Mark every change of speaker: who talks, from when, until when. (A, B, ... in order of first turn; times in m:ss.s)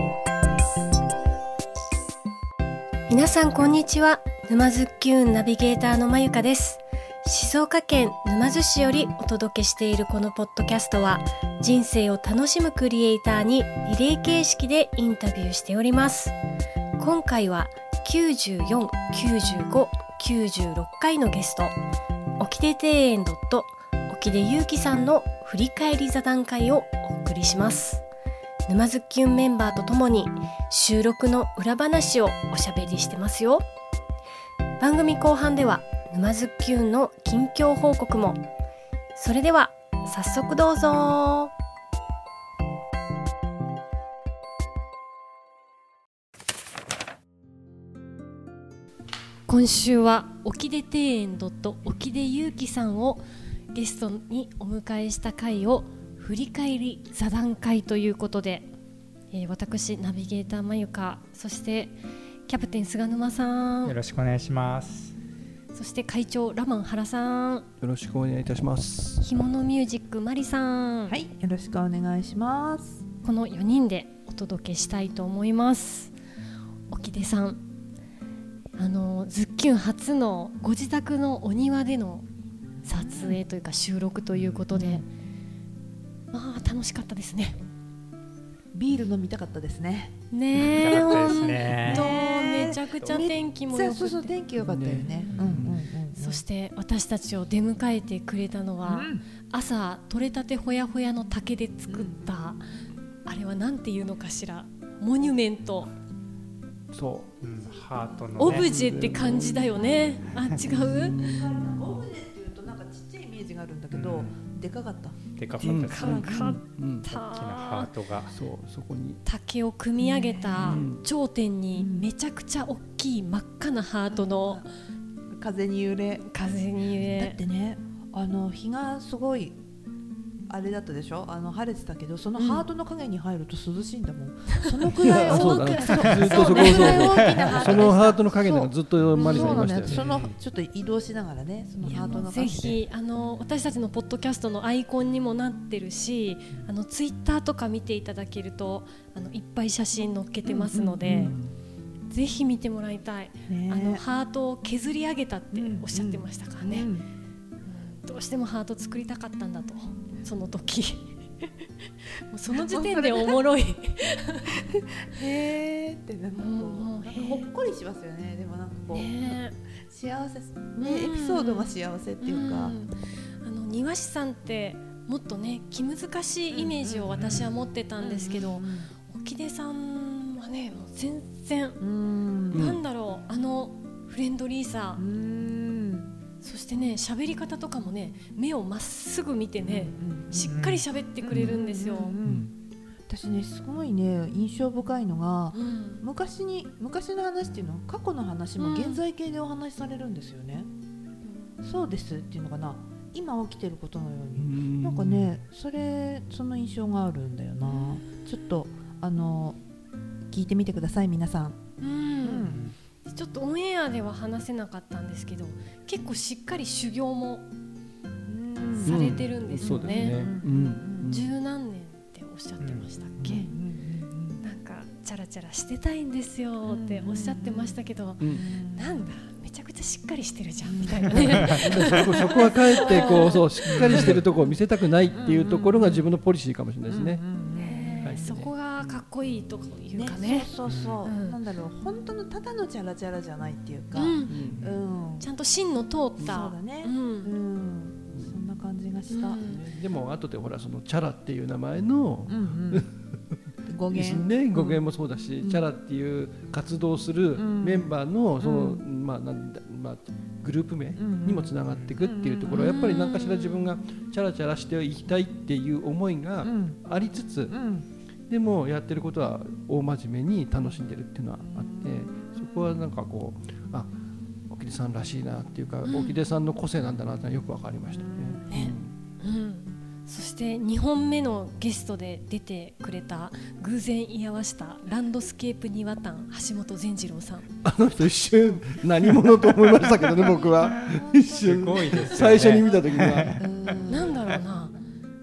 0:03.1-0:16.4 A
0:17.0-0:21.8 A
0:22.4-0:28.0 A
0:28.6-0:33.6 A
0:34.8-0:38.4 A
0:39.1-0:41.5 A
0:49.5-0:58.7 A
0:59.3-1:04.0 A
1:03.8-1:05.1 B
1:05.7-1:07.7 A
1:07.8-1:09.2 C
1:09.2-1:11.2 A
1:11.1-1:13.0 D
1:13.2-1:16.1 A
1:16.9-1:17.6 A
1:18.8-1:22.2 A
1:22.8-1:25.0 A
1:22.9-1:23.4 D
1:24.3-1:24.7 B
1:24.7-1:25.0 D
1:26.3-1:27.6 A
1:28.7-1:36.4 D
1:30.3-1:34.3 A
1:30.5-1:33.3 B
1:34.6-1:35.8 C
1:35.3-1:35.6 B
1:36.1-1:42.6 A
1:38.8-1:39.2 D
1:41.9-1:42.2 D
1:43.2-1:45.9 A
1:46.9-1:47.4 C
1:47.4-1:48.7 B
1:48.4-1:51.2 A
1:48.4-1:49.9 C
1:49.4-1:50.2 D
1:50.3-1:50.9 B
1:50.7-1:51.8 C
1:50.8-1:56.1 D
1:53.9-1:54.4 B
1:55.4-1:58.3 B
1:55.6-1:57.9 A
1:55.6-1:57.0 C
1:58.3-1:59.2 C
1:59.2-2:04.6 A
2:00.0-2:00.8 D
2:00.6-2:01.0 C
2:01.7-2:02.1 D
2:04.1-2:04.7 D
2:05.3-2:06.2 D
2:06.2-2:07.4 A
2:07.0-2:09.6 D
2:10.5-2:22.8 D
2:12.4-2:12.6 A
2:15.0-2:20.0 C
2:15.0-2:17.6 A
2:17.1-2:17.7 B
2:19.2-2:19.6 A
2:19.8-2:20.4 B
2:21.8-2:22.2 B
2:21.8-2:31.3 A
2:30.4-2:31.3 D
2:31.1-2:31.6 C
2:32.1-2:36.9 A
2:33.5-2:34.0 D
2:35.5-2:37.1 D
2:37.6-2:44.7 A
2:42.5-2:43.4 D
2:44.7-2:52.8 D
2:46.3-2:47.5 A
2:48.9-2:49.6 A
2:50.8-3:01.8 A
2:56.5-2:57.3 D
2:57.1-2:57.5 C
2:58.0-2:58.9 D
3:01.8-3:02.6 D
3:02.5-3:05.0 A
3:02.5-3:02.8 C
3:05.0-3:06.1 D
3:06.4-3:12.2 A
3:09.6-3:10.6 D
3:10.5-3:10.8 B
3:11.2-3:12.5 D
3:11.3-3:11.6 C
3:12.2-3:12.5 B
3:13.1-3:20.7 D
3:15.5-3:16.0 A
3:18.6-3:19.0 A
3:21.2-3:21.6 A
3:21.6-3:29.6 D
3:24.4-3:25.4 C
3:27.7-3:27.9 A
3:30.3-3:31.6 D
3:31.8-3:37.5 A
3:32.2-3:32.6 D
3:32.4-3:32.7 B
3:38.2-3:41.2 D
3:38.7-3:40.2 A
3:38.8-3:41.3 C
3:39.0-3:39.3 B
3:41.0-3:43.5 A
3:42.6-3:43.4 B
3:43.2-3:44.4 D
3:44.4-3:53.4 A
3:46.6-3:48.9 D
3:48.2-3:48.4 C
3:50.6-3:54.4 D
3:51.6-3:57.2 C
3:53.7-3:54.2 B
3:55.1-3:56.1 D
3:56.9-3:58.3 D
3:57.5-4:00.5 A
3:58.0-3:59.0 C
3:59.9-4:05.3 D
4:00.6-4:01.1 B
4:01.0-4:01.4 A
4:03.9-4:04.4 A
4:04.2-4:04.8 C
4:05.2-4:07.3 A
4:06.2-4:06.4 C
4:06.2-4:09.4 D
4:08.1-4:08.4 C
4:09.1-4:09.6 A
4:09.4-4:13.0 C
4:12.3-4:12.9 D
4:13.6-4:14.8 D
4:13.9-4:27.6 C
4:15.4-4:15.6 D
4:17.3-4:18.8 D
4:21.0-4:22.9 D
4:21.7-4:22.0 B
4:22.5-4:23.5 A
4:26.4-4:26.8 D
4:27.5-4:27.8 D
4:28.3-4:34.0 C
4:31.5-4:32.5 D
4:34.5-4:38.9 C
4:35.8-4:36.2 A
4:37.9-4:38.5 D
4:38.5-4:47.6 A
4:47.6-4:53.3 C
4:50.1-4:52.8 D
4:50.6-4:53.4 B
4:53.4-4:54.2 D
4:53.9-4:54.8 A